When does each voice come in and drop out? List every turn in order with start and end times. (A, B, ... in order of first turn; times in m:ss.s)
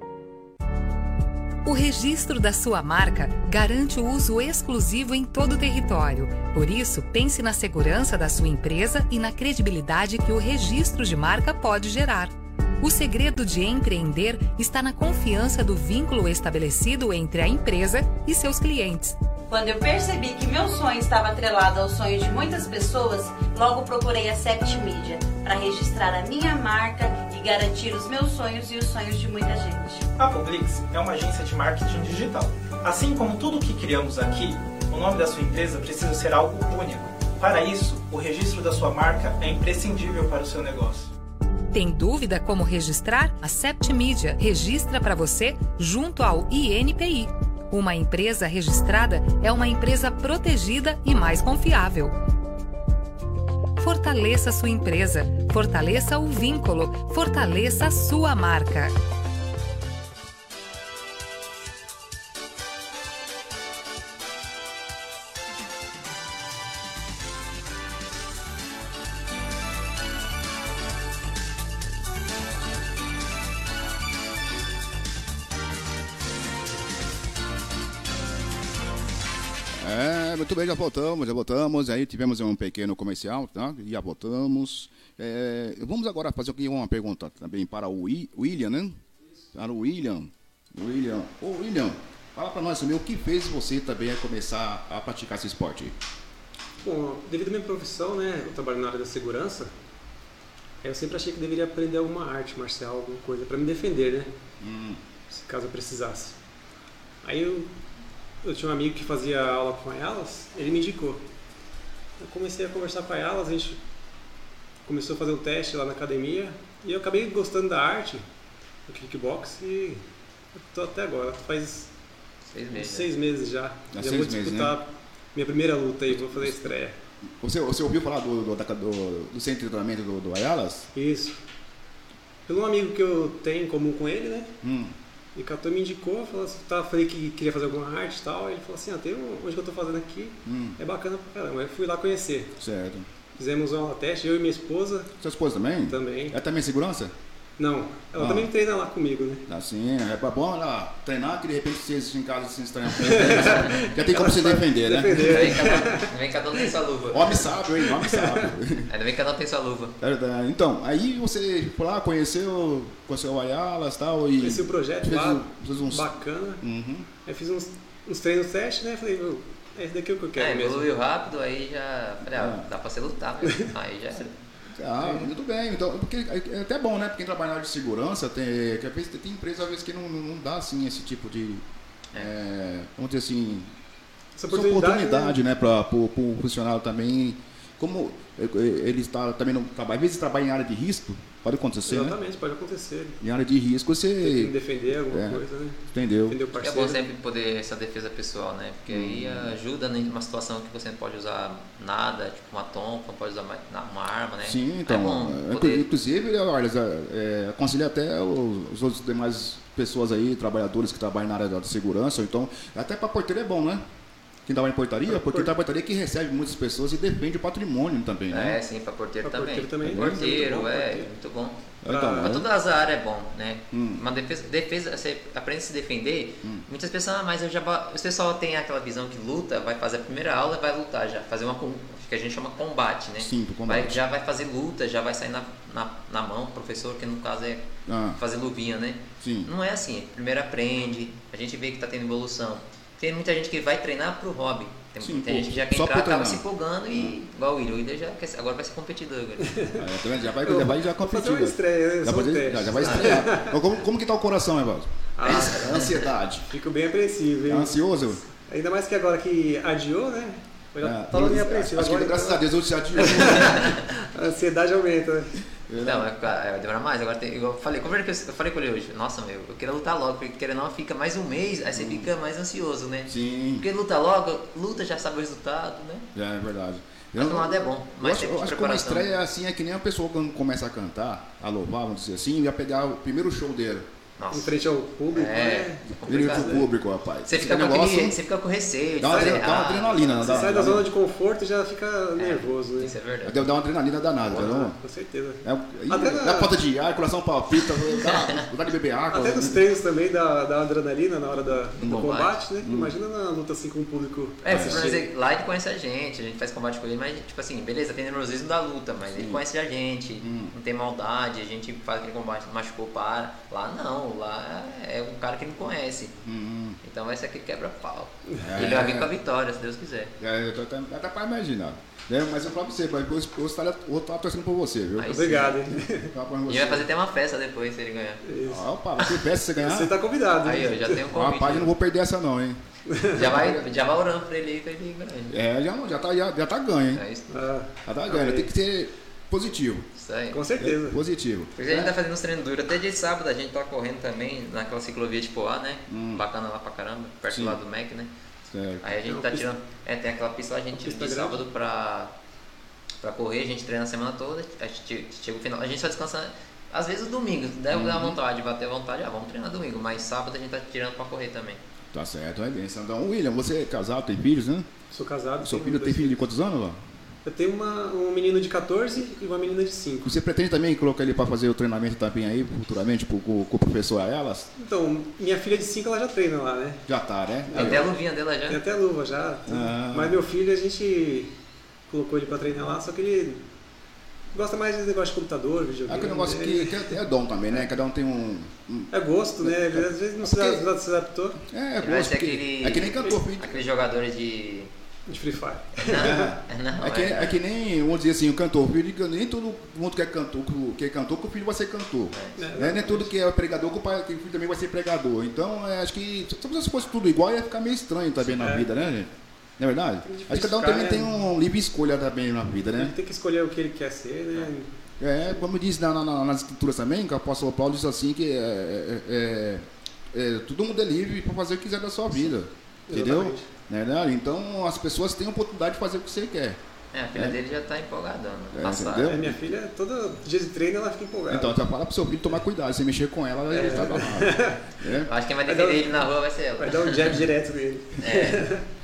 0:01.6-0:19.2 A
0:19.5-0:30.1 B
0:30.2-0:41.1 C
0:41.7-0:52.1 A
0:53.8-0:58.9 A
1:19.8-1:29.0 D
1:29.5-1:36.0 D
1:36.8-1:39.7 E
1:40.8-1:44.3 E
1:44.6-1:45.0 D
1:45.3-1:46.4 E
1:47.2-1:47.7 E
1:48.4-1:51.2 E
1:52.2-1:53.8 E
1:54.9-1:58.2 E
1:58.9-2:00.0 E
2:00.7-2:01.9 E
2:02.5-2:03.1 F
2:02.7-2:07.0 E
2:03.9-2:04.8 D
2:06.1-2:06.6 D
2:07.4-2:10.9 D
2:10.9-2:11.4 E
2:12.5-2:14.5 E
2:14.6-2:15.0 D
2:15.4-2:22.6 E
2:20.4-2:20.8 D
2:22.6-2:23.1 D
2:23.4-2:25.1 E
2:25.2-2:27.1 D
2:25.9-2:26.4 E
2:27.6-2:29.4 E
2:28.2-2:28.5 D
2:29.5-2:35.6 D
2:33.0-2:36.1 E
2:35.2-2:37.4 F
2:37.1-2:38.9 D
2:37.8-2:38.5 E
2:38.9-2:40.0 F
2:40.0-2:46.1 D
2:44.4-2:46.6 E
2:46.6-2:47.1 D
2:47.2-2:50.9 E
2:50.4-2:54.3 F
2:52.3-2:52.6 D
2:54.7-3:01.6 D
2:55.0-2:55.3 E
3:02.1-3:03.7 D
3:04.4-3:05.4 E
3:04.5-3:12.2 D
3:11.9-3:13.2 E
3:13.2-3:14.6 D
3:14.2-3:17.0 E
3:15.1-3:16.4 D
3:16.6-3:25.9 F
3:18.9-3:19.5 D
3:24.4-3:33.8 D
3:34.5-3:38.6 D
3:35.1-3:35.5 E
3:38.3-4:09.6 F
3:39.2-3:41.1 E
3:39.8-3:40.2 D
3:41.8-3:42.5 D
3:41.9-3:42.3 E
3:43.7-3:44.0 D
3:53.2-3:54.0 D
3:57.9-3:58.2 D
3:59.2-3:59.5 D
4:05.0-4:07.2 D
4:09.4-4:09.9 E
4:09.8-4:16.5 D
4:10.4-4:13.6 E
4:12.8-4:13.2 F
4:15.2-4:15.7 E
4:15.2-4:16.1 F
4:16.5-4:17.8 E
4:17.5-4:18.2 D
4:18.5-4:22.4 E
4:20.8-4:23.8 D
4:23.0-4:25.4 E
4:23.5-4:23.8 F
4:25.7-4:26.1 D
4:25.8-4:36.1 F
4:31.8-4:32.1 D
4:33.1-4:33.7 D
4:36.1-4:43.9 D
4:37.2-4:39.1 F
4:44.2-4:44.5 F
4:44.3-4:46.7 E
4:45.1-4:46.6 F
4:45.9-4:48.2 D
4:47.2-4:50.7 F
4:49.0-4:50.9 D
4:49.0-4:49.6 E
4:50.2-4:52.9 E
4:52.2-4:53.5 F
4:53.2-4:54.8 D
4:54.3-4:56.5 E
4:55.4-4:59.6 D
4:58.0-4:58.4 F
4:59.1-5:05.1 E
5:01.8-5:02.4 F
5:02.6-5:02.9 D
5:04.4-5:16.2 F
5:04.5-5:04.9 D
5:09.1-5:09.4 D
5:10.2-5:10.5 D
5:16.2-5:16.8 D
5:16.8-5:20.1 F
5:18.4-5:19.1 D
5:20.2-5:26.9 D
5:25.0-5:25.6 F
5:25.1-5:26.1 E
5:26.5-5:28.2 F
5:28.2-5:31.1 E
5:28.4-5:29.9 D
5:30.4-5:31.7 F
5:31.1-5:33.6 D
5:32.9-5:33.3 E
5:33.2-5:35.4 F
5:35.3-5:37.0 D
5:36.9-5:37.4 F
5:37.3-5:38.5 E
5:37.8-5:39.9 D
5:40.0-5:40.4 F
5:40.3-5:41.0 E
5:40.6-5:41.9 D
5:41.6-5:48.1 F
5:45.9-5:46.2 D
5:47.3-5:47.6 D
5:48.5-5:49.0 D
5:48.8-5:52.1 F
5:49.1-5:49.5 E
5:50.8-5:51.4 E
5:53.0-6:01.6 F
5:57.7-5:58.2 D
6:01.9-6:04.7 D
6:04.9-6:06.2 E
6:05.4-6:06.8 D
6:07.2-6:10.2 E
6:10.0-6:14.5 D
6:14.5-6:16.9 E
6:16.9-6:17.9 D
6:17.5-6:17.9 E
6:17.5-6:18.6 F
6:18.5-6:21.3 E
6:19.5-6:20.2 D
6:21.9-6:23.4 E
6:24.3-6:27.0 E
6:25.9-6:30.6 D
6:28.9-6:31.4 E
6:31.5-6:33.6 D
6:31.8-6:34.7 F
6:35.1-6:36.3 E
6:35.8-6:37.4 F
6:35.9-6:53.0 D
6:42.1-6:42.5 F
6:42.4-6:43.1 E
6:48.3-6:48.8 E
6:50.0-6:51.3 E
6:52.8-6:54.7 E
6:55.0-7:06.6 D
7:02.9-7:03.5 E
7:06.9-7:09.1 F
7:08.5-7:09.4 D
7:09.0-7:11.6 E
7:11.3-7:15.1 D
7:13.5-7:14.6 E
7:14.9-7:17.2 F
7:15.5-7:16.1 E
7:16.6-7:18.6 E
7:18.0-7:18.4 F